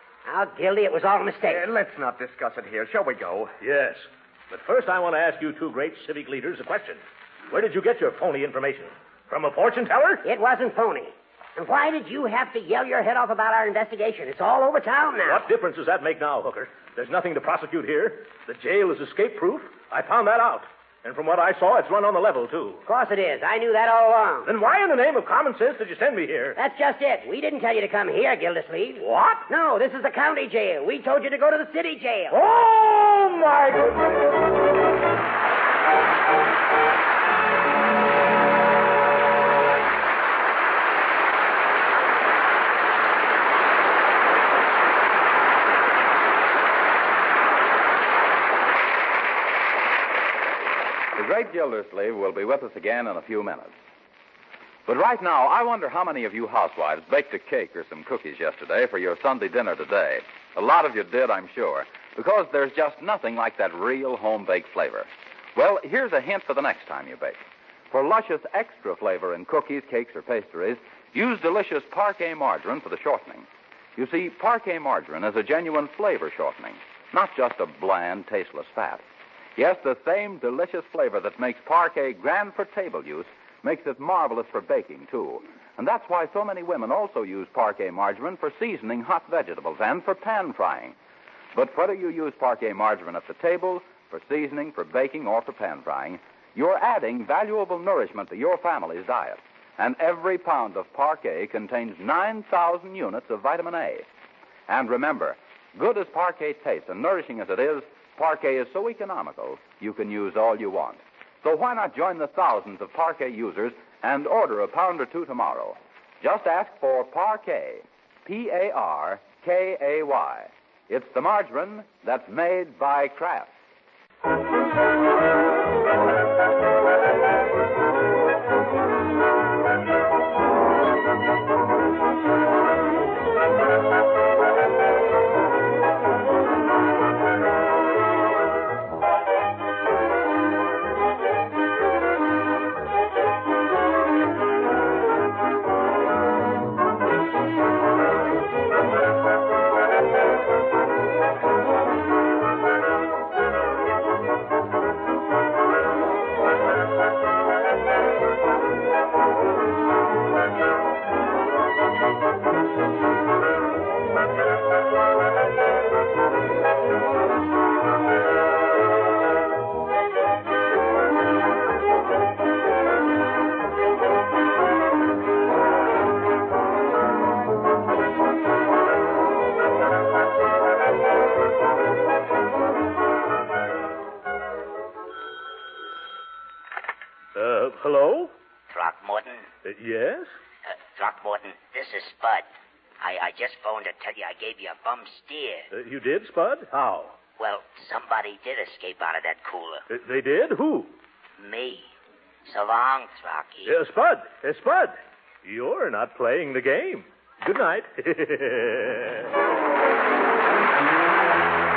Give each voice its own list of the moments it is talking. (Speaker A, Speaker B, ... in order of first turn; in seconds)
Speaker A: 0.3-1.7, 10.2-15.5, 22.9-24.5, 26.6-32.4
Speaker B: 1.4-3.5
Speaker C: 3.6-10.2, 15.2-22.8, 24.4-26.6, 29.0-29.5, 32.3-34.1, 187.3-188.3, 189.6-190.3, 195.7-197.2, 199.9-200.9, 203.7-209.3
Speaker D: 51.1-53.7, 54.9-79.0, 79.6-91.0, 91.5-104.1, 104.7-123.5
Speaker E: 188.7-189.5, 190.7-192.5, 193.0-195.7, 197.4-199.8, 201.4-201.9, 202.4-203.7